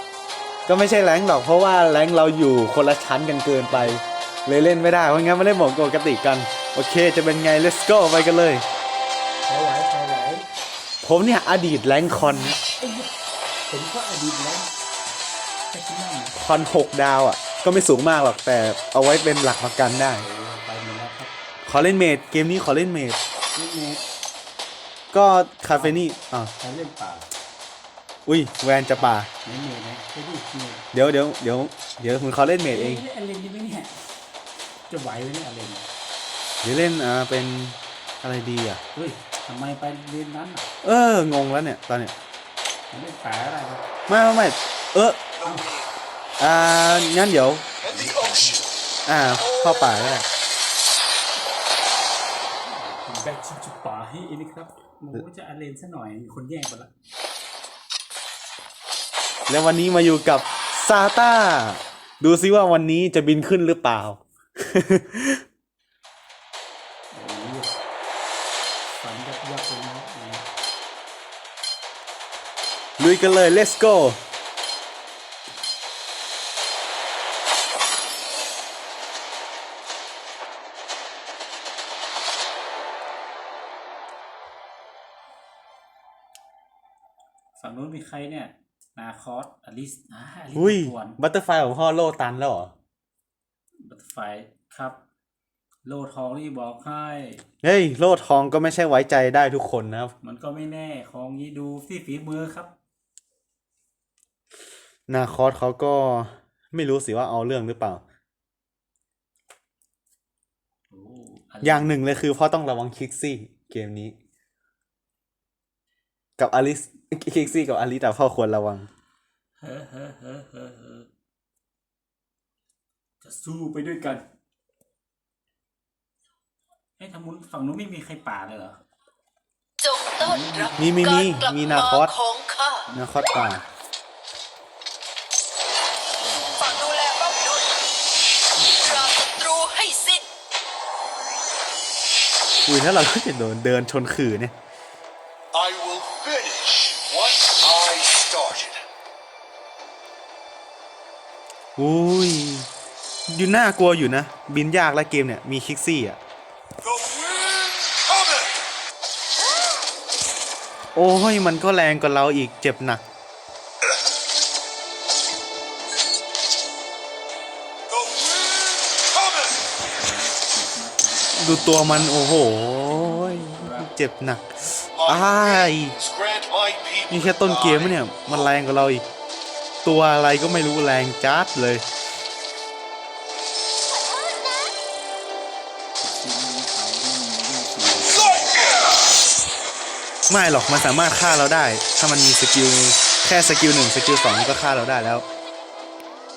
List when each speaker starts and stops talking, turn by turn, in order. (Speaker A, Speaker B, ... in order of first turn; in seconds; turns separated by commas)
Speaker A: 0.7-8.6, Speaker B: 3.7-4.0, Speaker B: 9.4-10.4, Speaker A: 11.0-12.6, Speaker B: 12.8-13.1, Speaker B: 13.7-14.7, Speaker B: 15.7-16.4, Speaker A: 16.4-20.3, Speaker B: 20.2-21.3, Speaker A: 21.6-23.2, Speaker B: 23.5-24.0, Speaker A: 25.1-26.5, Speaker B: 25.7-26.0, Speaker B: 26.6-27.3, Speaker A: 28.3-29.3, Speaker B: 29.4-30.9, Speaker A: 30.9-33.0, Speaker B: 32.7-34.0, Speaker B: 34.9-35.9, Speaker A: 36.6-38.8, Speaker B: 38.9-40.7, Speaker A: 40.8-42.1, Speaker B: 42.9-43.8, Speaker A: 44.1-45.2, Speaker C: 45.3-45.9, Speaker A: 46.4-47.7, Speaker C: 47.8-48.7, Speaker B: 47.9-48.6, Speaker A: 49.1-50.2, Speaker B: 52.7-56.9, Speaker A: 59.5-65.4, Speaker B: 67.1-67.8, Speaker B: 69.0-70.5, Speaker A: 73.0-74.2, Speaker B: 87.6-91.2, Speaker A: 90.5-92.7, Speaker B: 93.8-95.0, Speaker B: 95.8-97.4, Speaker A: 97.6-100.1, Speaker B: 100.2-102.7, Speaker A: 105.1-108.0, Speaker B: 110.9-111.9, Speaker A: 111.6-114.1, Speaker A: 116.4-118.9, Speaker B: 119.6-121.1, Speaker B: 123.2-124.2, Speaker B: 127.0-128.8, Speaker D: 129.8-132.9, Speaker B: 130.2-131.2, Speaker A: 130.8-132.1, Speaker A: 132.9-133.6, Speaker B: 136.2-136.9, Speaker D: 136.6-137.7, Speaker B: 138.6-139.1, Speaker D: 138.7-140.3, Speaker A: 142.7-144.5, Speaker C: 145.5-148.8, Speaker A: 151.8-152.7, Speaker A: 153.3-156.2, Speaker C: 156.8-158.6, Speaker A: 160.9-163.0, Speaker C: 167.9-169.6, Speaker B: 169.6-173.9, Speaker A: 171.4-174.5, Speaker C: 174.9-178.5, Speaker A: 175.1-175.9, Speaker A: 177.1-179.0, Speaker A: 179.8-181.8, Speaker B: 186.0-188.7, Speaker C: 188.2-188.9, Speaker A: 190.3-195.2